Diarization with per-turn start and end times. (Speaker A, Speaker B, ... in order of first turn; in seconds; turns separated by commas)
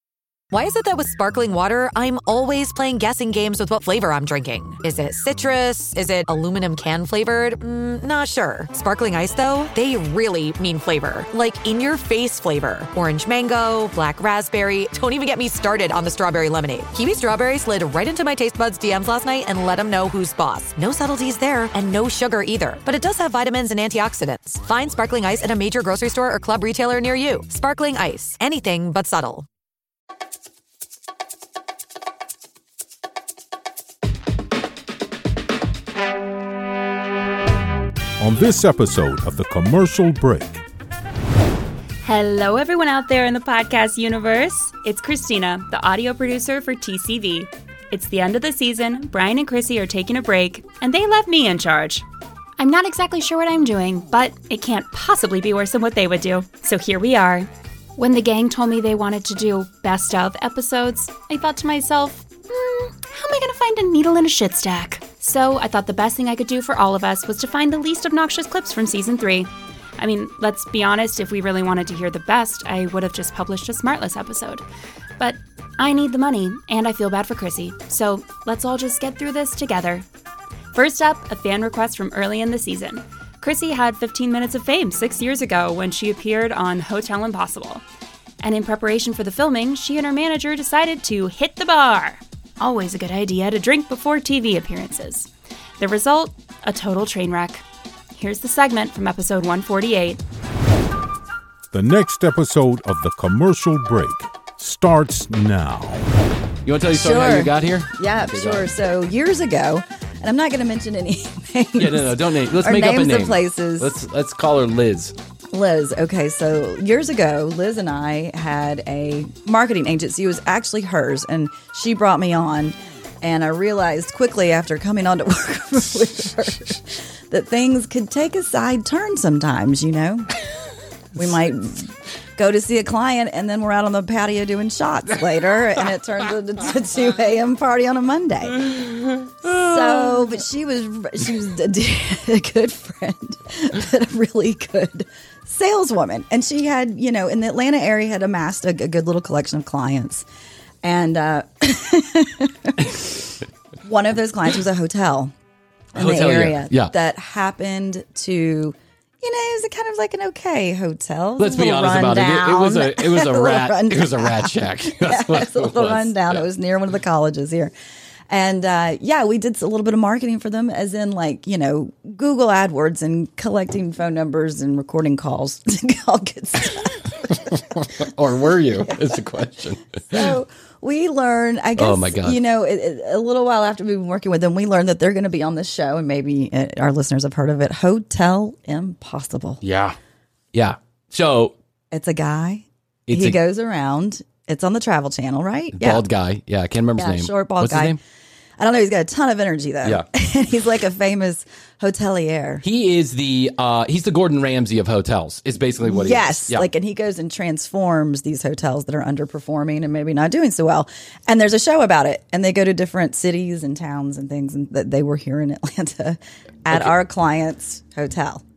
Speaker A: 0.5-29.5, Speaker B: 38.2-40.6, Speaker C: 42.0-52.1, Speaker C: 52.6-74.7, Speaker C: 75.2-80.1, Speaker C: 80.7-87.8, Speaker C: 88.4-100.2, Speaker B: 101.7-106.1, Speaker D: 106.7-108.7, Speaker E: 106.9-114.0, Speaker D: 111.8-115.2, Speaker E: 115.5-130.3, Speaker E: 131.2-138.8, Speaker D: 138.6-140.3, Speaker E: 139.4-150.3, Speaker E: 150.8-153.2, Speaker E: 153.8-155.3, Speaker D: 155.9-156.9, Speaker E: 155.9-167.7, Speaker D: 161.4-166.5, Speaker E: 168.3-177.0, Speaker D: 177.3-180.3, Speaker E: 180.1-189.6, Speaker D: 181.8-182.4, Speaker D: 189.6-190.0, Speaker D: 190.5-191.6, Speaker E: 191.9-196.0, Speaker D: 193.1-193.4, Speaker D: 195.8-198.0, Speaker E: 197.0-198.0, Speaker E: 198.6-202.6, Speaker D: 202.6-206.7, Speaker E: 205.8-218.4